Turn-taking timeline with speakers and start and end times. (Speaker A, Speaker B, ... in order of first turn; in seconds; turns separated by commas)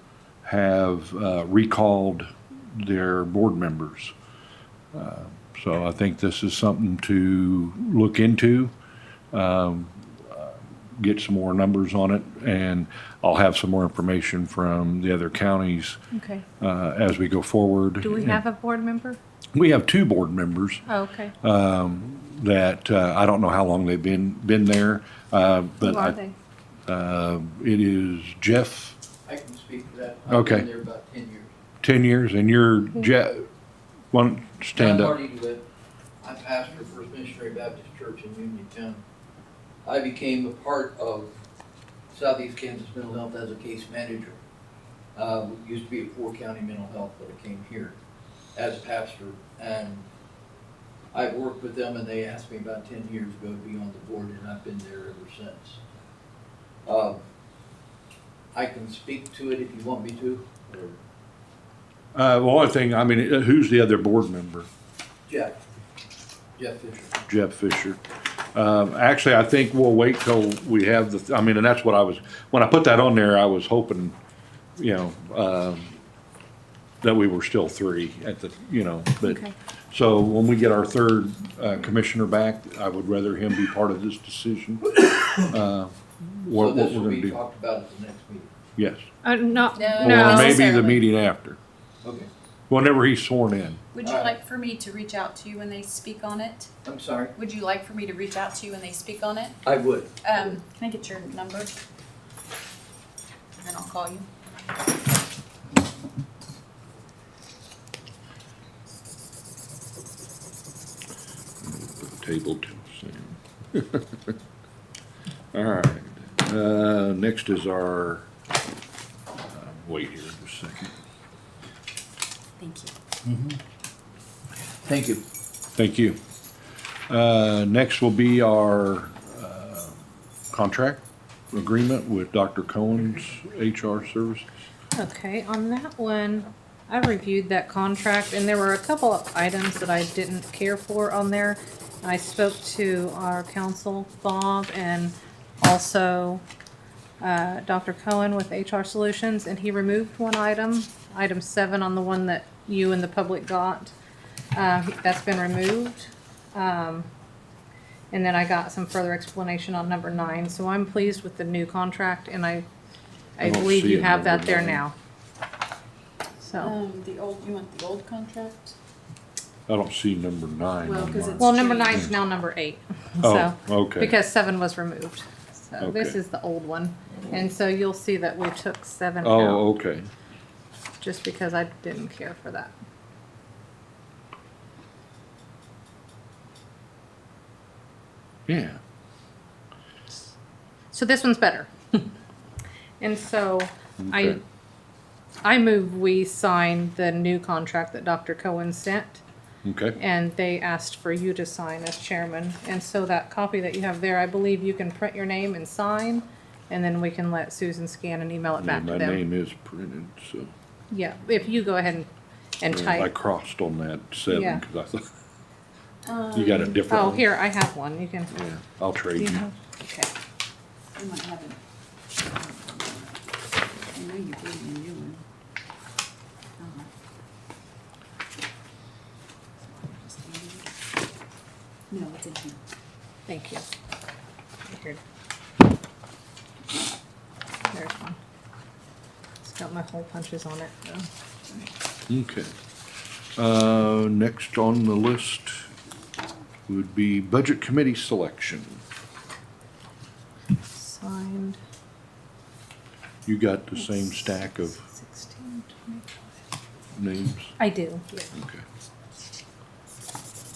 Speaker A: 0.4-4.1, Speaker A: 4.9-8.7, Speaker A: 9.3-16.0, Speaker B: 16.1-16.4, Speaker A: 16.6-18.4, Speaker B: 18.0-19.2, Speaker A: 19.5-20.8, Speaker B: 20.9-21.3, Speaker A: 21.4-26.2, Speaker B: 25.8-26.3, Speaker A: 26.9-29.0, Speaker C: 29.2-31.5, Speaker A: 30.3-30.7, Speaker A: 31.8-33.5, Speaker A: 34.1-35.2, Speaker C: 34.8-35.6, Speaker C: 36.2-39.0, Speaker C: 39.8-41.4, Speaker C: 42.1-44.4, Speaker C: 45.1-48.0, Speaker C: 48.5-50.0, Speaker C: 51.1-55.8, Speaker C: 56.9-57.2, Speaker C: 58.5-61.0, Speaker A: 62.1-64.7, Speaker C: 65.3-65.5, Speaker C: 66.6-67.2, Speaker A: 67.3-68.0, Speaker A: 68.5-74.1, Speaker A: 74.8-75.9, Speaker A: 77.0-87.4, Speaker B: 79.2-79.5, Speaker C: 86.5-88.5, Speaker A: 88.8-89.1, Speaker B: 89.2-90.7, Speaker D: 89.7-91.0, Speaker A: 90.0-91.6, Speaker A: 92.7-93.8, Speaker D: 93.9-96.7, Speaker C: 94.0-94.3, Speaker C: 96.8-97.3, Speaker D: 97.3-99.6, Speaker C: 99.6-100.1, Speaker D: 100.2-101.8, Speaker D: 103.6-104.4, Speaker A: 111.6-114.3, Speaker A: 115.5-118.3, Speaker A: 119.5-120.9, Speaker D: 122.6-122.9, Speaker C: 123.2-123.6, Speaker C: 124.8-125.2, Speaker A: 125.8-126.2, Speaker A: 127.1-130.0, Speaker A: 130.5-134.4, Speaker B: 134.9-146.4, Speaker B: 147.2-153.9, Speaker B: 154.5-157.1, Speaker B: 158.1-162.7, Speaker B: 163.4-164.9, Speaker A: 163.4-164.8, Speaker B: 166.4-166.7, Speaker D: 166.6-168.8, Speaker A: 169.7-172.1, Speaker D: 170.8-172.1, Speaker B: 171.4-179.6, Speaker A: 173.2-174.2, Speaker A: 175.8-176.2, Speaker A: 179.2-180.1, Speaker B: 181.0-182.7, Speaker A: 188.5-188.8, Speaker B: 190.9-192.1, Speaker B: 193.0-194.4, Speaker A: 194.0-194.4, Speaker B: 195.4-199.2, Speaker A: 199.6-200.0, Speaker B: 200.0-209.2, Speaker A: 208.6-210.5, Speaker B: 210.9-212.1, Speaker B: 212.6-213.1, Speaker A: 212.7-215.1, Speaker B: 214.3-214.6, Speaker D: 216.0-216.8, Speaker A: 216.3-217.2, Speaker B: 216.9-218.3, Speaker A: 218.3-219.4, Speaker B: 219.1-219.5, Speaker D: 220.9-221.6, Speaker D: 222.1-223.3, Speaker D: 223.9-225.2, Speaker D: 226.6-226.9, Speaker D: 229.6-230.7, Speaker D: 231.9-232.6, Speaker B: 233.3-233.7, Speaker B: 234.6-235.0, Speaker B: 237.7-238.2, Speaker B: 239.4-241.1, Speaker A: 242.1-242.5, Speaker A: 243.4-245.7, Speaker A: 246.7-248.8, Speaker B: 250.7-251.6, Speaker A: 253.2-254.8, Speaker B: 254.8-256.2, Speaker A: 256.9-257.6, Speaker B: 257.6-258.3, Speaker A: 258.3-258.6